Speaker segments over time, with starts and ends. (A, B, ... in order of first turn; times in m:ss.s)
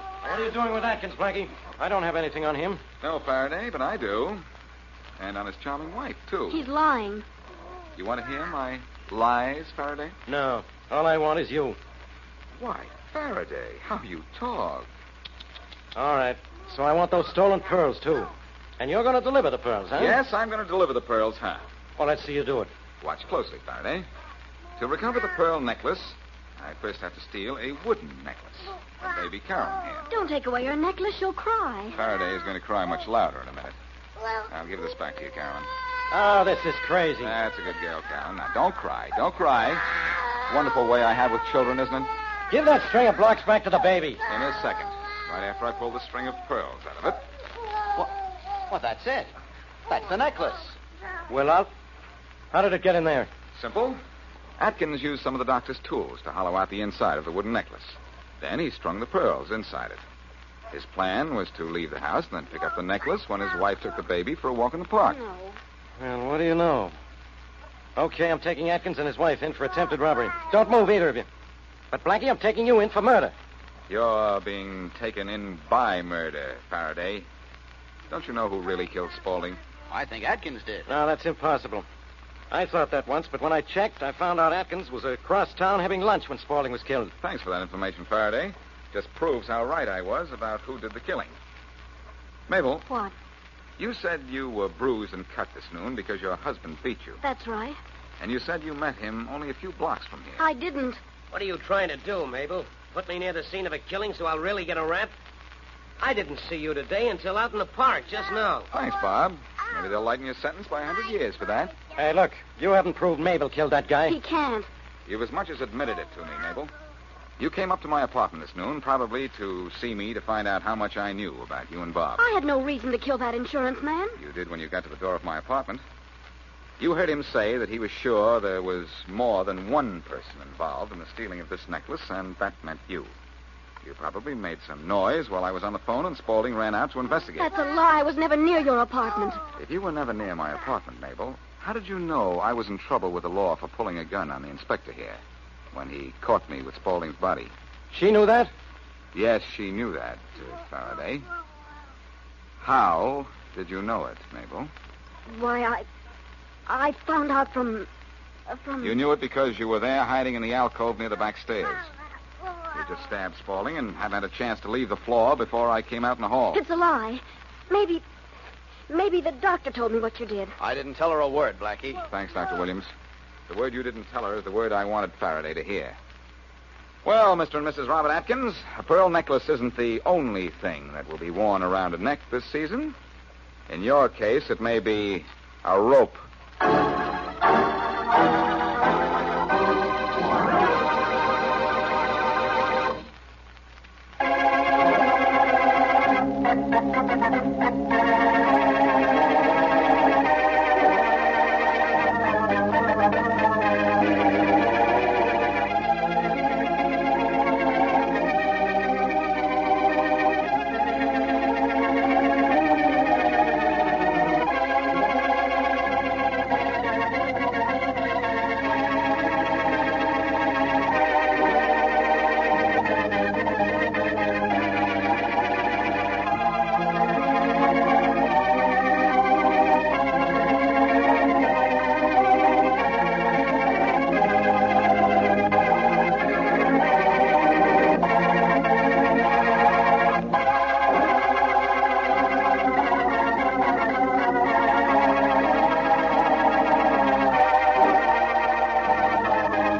0:00.2-0:02.8 A
0:03.0-0:04.4 B
0:05.2-0:06.6 B
0:06.5-0:07.2 C
0:08.0-0:10.1 B
0:10.3-0:11.8 A
0:12.6-0:14.9 B
0:15.9-0:20.2 A
0:19.9-0:21.6 B
0:22.0-0:22.7 A
0:23.0-0:24.0 B
0:24.8-0:30.1 B
0:30.1-0:32.0 C
0:31.9-0:33.8 B
0:34.5-0:35.7 B
0:36.1-0:37.3 A
0:37.2-0:42.1 B
0:42.5-0:44.2 A
0:44.2-0:47.2 B
0:48.7-0:49.3 D
0:49.9-0:50.8 D
0:51.3-0:51.7 A
0:52.5-0:53.3 A
0:53.5-0:54.0 B
0:54.6-1:00.0 B
1:00.7-1:05.2 B
1:05.1-1:05.6 C
1:06.0-1:06.9 A
1:08.0-1:11.3 A
1:11.9-1:13.3 A
1:13.9-1:17.3 B
1:18.1-1:19.6 B
1:19.9-1:20.9 D
1:20.9-1:21.8 A
1:22.5-1:27.1 A
1:27.2-1:31.3 B
1:32.5-1:32.8 B
1:32.9-1:33.1 C
1:33.8-1:37.2 B
1:37.2-1:37.8 C
1:38.2-1:40.4 B
1:40.4-1:41.0 C
1:41.3-1:45.1 E
1:46.0-1:48.7 E
1:48.7-1:51.7 B
1:51.9-1:54.2 A
1:54.1-1:54.7 C
1:55.0-1:56.7 B
1:57.4-2:02.2 B
2:02.2-2:04.2 C
2:04.2-2:05.8 B
2:06.8-2:13.1 B
2:13.8-2:17.5 B
2:17.4-2:19.4 C
2:19.6-2:25.2 B
2:25.7-2:27.5 B
2:27.9-2:28.5 A
2:29.1-2:31.2 B
2:32.6-2:34.7 B
2:35.3-2:35.8 C
2:36.7-2:37.9 C
2:38.5-2:39.0 C
2:38.8-2:41.9 B
2:42.7-2:46.6 B
2:46.5-2:48.0 C
2:48.9-2:50.5 C
2:50.6-2:52.0 D
2:52.0-2:52.9 B
2:53.5-2:56.0 B
2:57.0-3:03.0 B
3:03.7-3:06.2 B